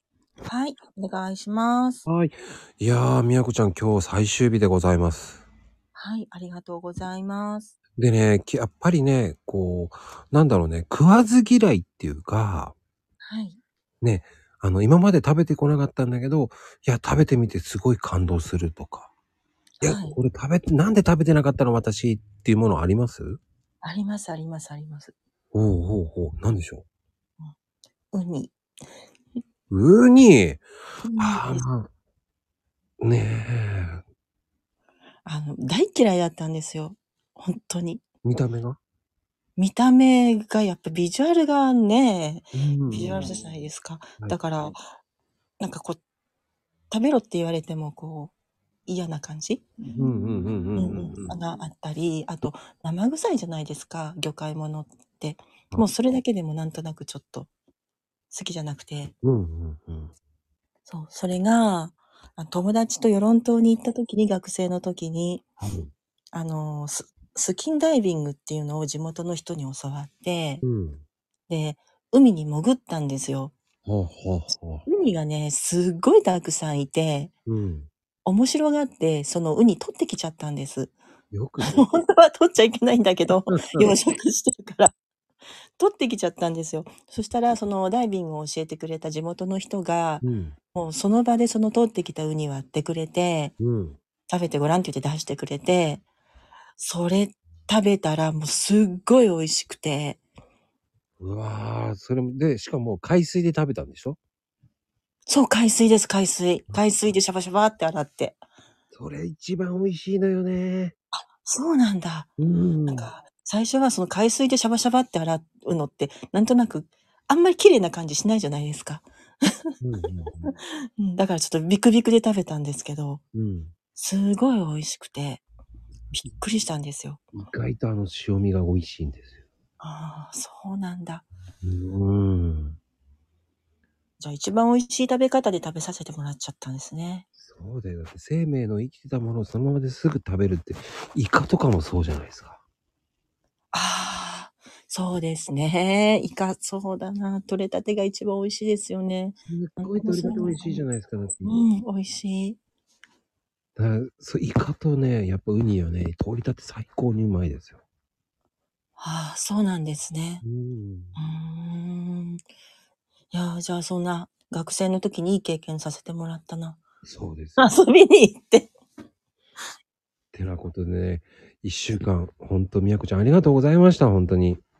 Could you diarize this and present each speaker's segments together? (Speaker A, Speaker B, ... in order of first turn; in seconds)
Speaker A: 0.5-2.0, 5.9-7.8, 13.2-13.6, 19.8-20.2, 23.8-25.1, 28.1-28.5, 31.0-31.6, 35.2-38.0, 39.6-44.8, 45.6-46.0, 46.9-48.3, 48.9-49.7, 50.7-57.5, 58.3-59.1, 60.9-65.4, 66.3-70.6, 71.5-73.5, 74.9-77.3, 78.2-80.9, 81.6-84.9, 85.8-93.5, 94.3-96.0, 96.8-100.2, 105.3-108.4, 111.2-112.3, 112.9-119.6, 121.0-123.2, 124.0-125.4, 126.1-127.2, 129.8-131.2, 134.2-137.3, 143.7-150.8, 151.4-152.6, 159.0-160.4, 161.2-162.4, 163.3-166.8, 167.6-168.7
Speaker B: 2.0-5.4, 8.0-12.7, 14.0-19.1, 19.8-23.4, 25.5-26.8, 29.7-30.6, 31.2-31.9, 33.0-34.0, 38.2-38.8, 42.5-43.2, 49.9-51.3, 59.2-60.1, 65.6-65.9, 70.6-71.0, 73.8-74.8, 77.5-77.9, 81.3-81.8, 83.5-83.9, 90.2-90.5, 93.6-94.0, 101.2-104.2, 108.9-110.9, 112.4-113.1, 119.8-120.5, 123.3-123.7, 127.3-129.4, 131.6-132.8, 137.4-142.6, 149.5-151.6, 153.8-157.8, 160.4-161.2, 167.0-167.7, 170.3-174.6